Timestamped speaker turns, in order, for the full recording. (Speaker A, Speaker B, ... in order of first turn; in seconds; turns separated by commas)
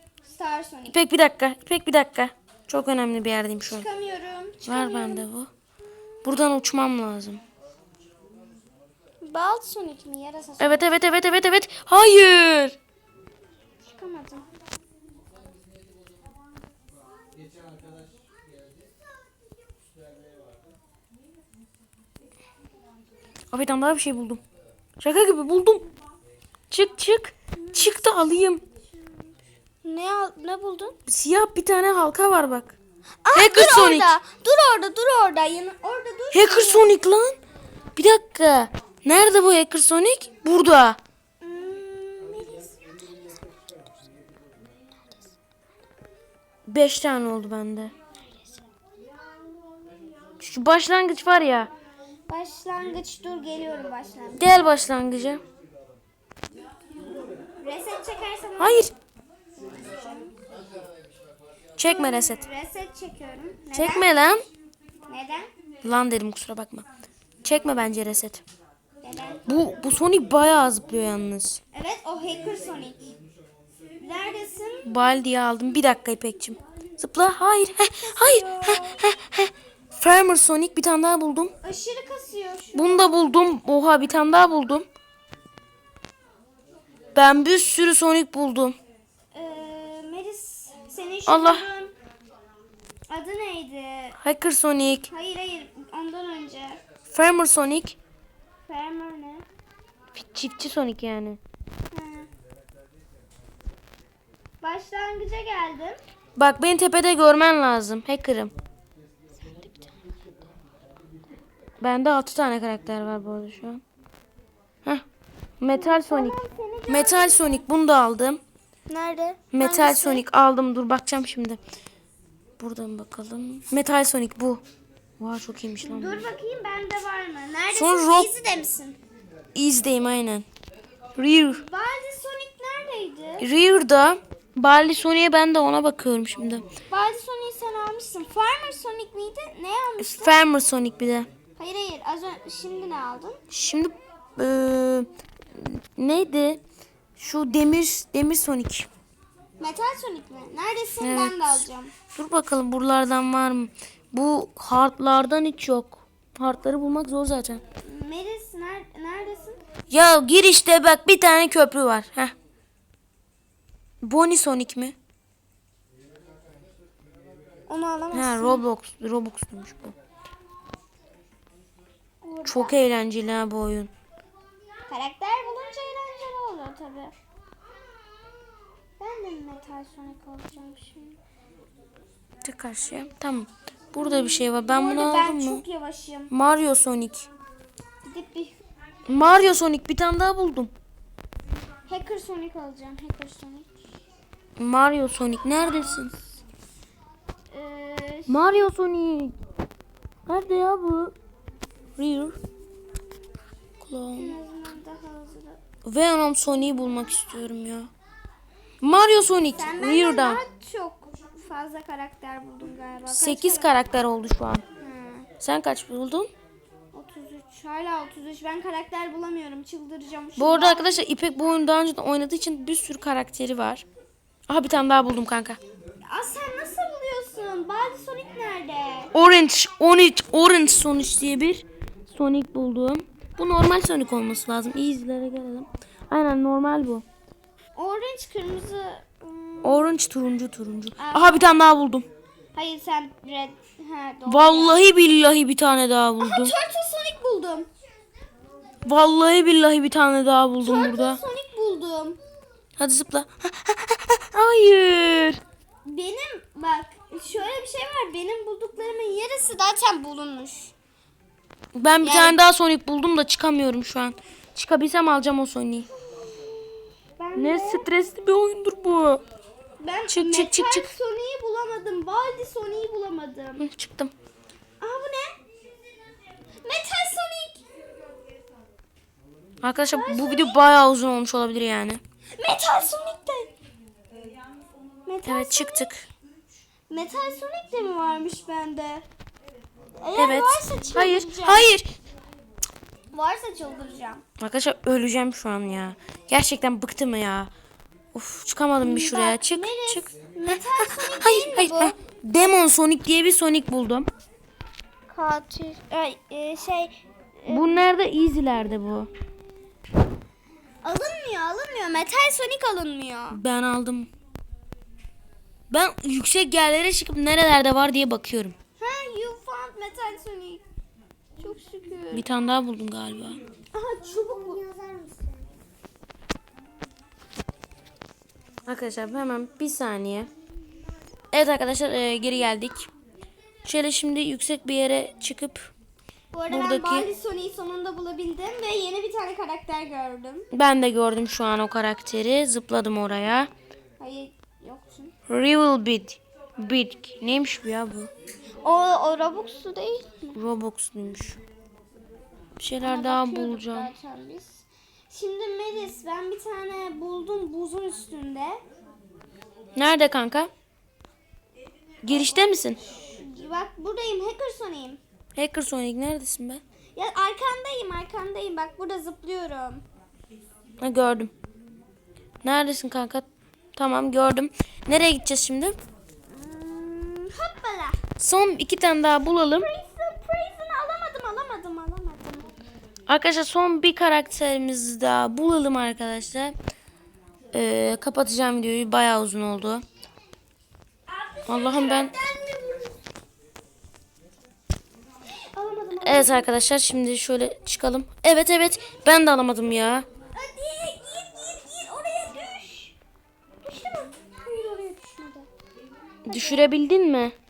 Speaker A: 0.2-1.0, Speaker B: 0.9-3.9, Speaker A: 3.7-5.3, Speaker B: 4.7-5.5, Speaker A: 6.2-6.5, Speaker B: 6.2-7.4, Speaker A: 9.2-10.8, Speaker B: 10.6-12.8, Speaker A: 13.8-14.4, Speaker B: 23.5-24.4, Speaker B: 25.0-25.8, Speaker B: 26.7-28.6, Speaker A: 27.6-27.9, Speaker A: 29.8-30.9, Speaker B: 31.1-32.8, Speaker A: 33.2-37.0, Speaker B: 33.3-34.1, Speaker B: 36.3-37.4, Speaker B: 38.0-41.0, Speaker A: 41.4-43.1, Speaker B: 46.7-47.9, Speaker B: 50.4-51.7, Speaker A: 52.3-54.7, Speaker B: 54.4-55.4, Speaker A: 57.6-58.9, Speaker B: 58.6-58.9, Speaker A: 59.5-60.3, Speaker B: 61.8-62.4, Speaker A: 61.8-64.1, Speaker B: 63.7-64.4, Speaker A: 65.1-65.5, Speaker B: 65.8-66.8, Speaker B: 67.4-68.4, Speaker A: 69.0-69.6, Speaker B: 69.5-71.6, Speaker A: 71.7-73.1, Speaker A: 74.0-75.0, Speaker B: 74.8-81.5, Speaker A: 78.0-79.0, Speaker A: 81.6-83.1, Speaker B: 82.7-84.8, Speaker B: 87.1-88.7, Speaker A: 89.3-91.9, Speaker B: 91.2-91.7, Speaker A: 93.1-94.2, Speaker B: 94.2-95.1, Speaker A: 95.1-96.8, Speaker B: 97.1-98.0, Speaker A: 98.7-99.5, Speaker B: 100.1-101.4, Speaker A: 101.9-102.3, Speaker A: 104.6-106.0, Speaker B: 106.4-108.5, Speaker A: 109.6-109.9, Speaker B: 111.8-113.8, Speaker B: 115.6-116.3, Speaker A: 115.7-117.6, Speaker B: 116.9-118.4, Speaker A: 118.9-120.2, Speaker B: 119.5-121.6, Speaker B: 122.6-124.6, Speaker B: 125.2-126.3, Speaker A: 125.8-129.0, Speaker B: 127.7-128.3, Speaker B: 129.5-130.4, Speaker B: 131.2-131.6, Speaker A: 131.5-133.5, Speaker B: 133.4-136.6, Speaker A: 136.9-140.4, Speaker B: 140.0-141.3, Speaker A: 141.6-143.4, Speaker B: 143.5-146.6, Speaker B: 147.2-148.9, Speaker A: 149.6-151.9, Speaker B: 151.0-157.6, Speaker A: 157.8-159.6, Speaker B: 159.9-162.3, Speaker B: 164.0-164.9, Speaker A: 167.7-168.6, Speaker B: 168.1-169.9, Speaker A: 172.2-172.8, Speaker B: 172.4-173.9, Speaker A: 174.9-177.1, Speaker A: 179.0-181.2, Speaker B: 182.4-185.6, Speaker A: 183.9-186.3, Speaker B: 186.3-187.3, Speaker A: 188.0-188.6, Speaker B: 189.1-190.7, Speaker A: 191.9-193.7, Speaker B: 194.6-196.1, Speaker A: 195.6-196.2, Speaker A: 197.5-198.7, Speaker B: 198.3-199.3, Speaker B: 200.3-201.1, Speaker B: 202.0-202.3, Speaker B: 203.8-204.3, Speaker A: 204.2-205.6, Speaker B: 205.8-207.9, Speaker B: 208.8-210.4, Speaker A: 209.5-213.8, Speaker B: 213.1-214.6, Speaker A: 214.8-215.3, Speaker B: 215.4-216.3, Speaker A: 216.9-221.0, Speaker B: 220.4-223.8, Speaker B: 224.5-225.6, Speaker A: 226.1-229.1, Speaker B: 229.1-237.0, Speaker A: 237.8-239.9, Speaker B: 239.6-242.1, Speaker A: 241.0-241.5, Speaker A: 242.5-244.8, Speaker B: 244.3-246.5, Speaker A: 246.2-247.7, Speaker B: 248.8-251.2, Speaker A: 250.6-252.2, Speaker B: 252.8-255.4, Speaker A: 255.8-260.7, Speaker B: 261.7-265.9, Speaker A: 262.0-262.4, Speaker A: 267.2-267.9, Speaker B: 267.4-269.2, Speaker A: 269.8-273.6, Speaker B: 270.1-270.9, Speaker B: 273.6-274.1, Speaker A: 274.8-275.4, Speaker A: 276.6-277.6, Speaker B: 279.6-282.0, Speaker A: 279.9-280.6, Speaker A: 282.4-283.5, Speaker A: 285.1-285.9, Speaker B: 285.2-286.1, Speaker A: 286.9-289.0, Speaker A: 290.0-291.7, Speaker B: 290.1-291.9, Speaker A: 293.1-294.2, Speaker B: 294.4-297.5, Speaker B: 298.1-304.1, Speaker A: 298.8-301.9, Speaker A: 305.1-307.9, Speaker B: 307.5-309.1, Speaker A: 310.8-313.4, Speaker B: 313.3-314.1, Speaker B: 315.7-318.6, Speaker A: 318.8-320.6, Speaker A: 321.4-322.3, Speaker B: 322.1-323.4, Speaker A: 323.7-325.4, Speaker B: 328.7-330.3, Speaker B: 331.3-332.9, Speaker B: 333.6-335.7, Speaker A: 336.3-340.5, Speaker B: 336.5-337.1, Speaker B: 340.5-343.5, Speaker A: 344.0-345.1, Speaker B: 345.3-348.1, Speaker A: 348.6-350.4, Speaker B: 350.3-351.4, Speaker B: 352.6-353.9, Speaker A: 352.8-358.6, Speaker B: 359.8-360.5, Speaker B: 362.0-362.8, Speaker A: 362.1-365.0, Speaker B: 365.4-366.6, Speaker A: 366.9-369.8, Speaker B: 370.8-371.3, Speaker B: 372.4-375.8, Speaker A: 376.3-378.0, Speaker B: 378.2-379.7, Speaker A: 379.5-382.5, Speaker B: 383.1-386.5, Speaker B: 387.5-389.8, Speaker A: 391.1-392.9, Speaker B: 391.5-392.1, Speaker A: 395.4-396.5, Speaker B: 395.9-400.1, Speaker A: 400.3-402.9, Speaker A: 403.6-405.5, Speaker B: 406.2-407.3, Speaker A: 406.3-406.7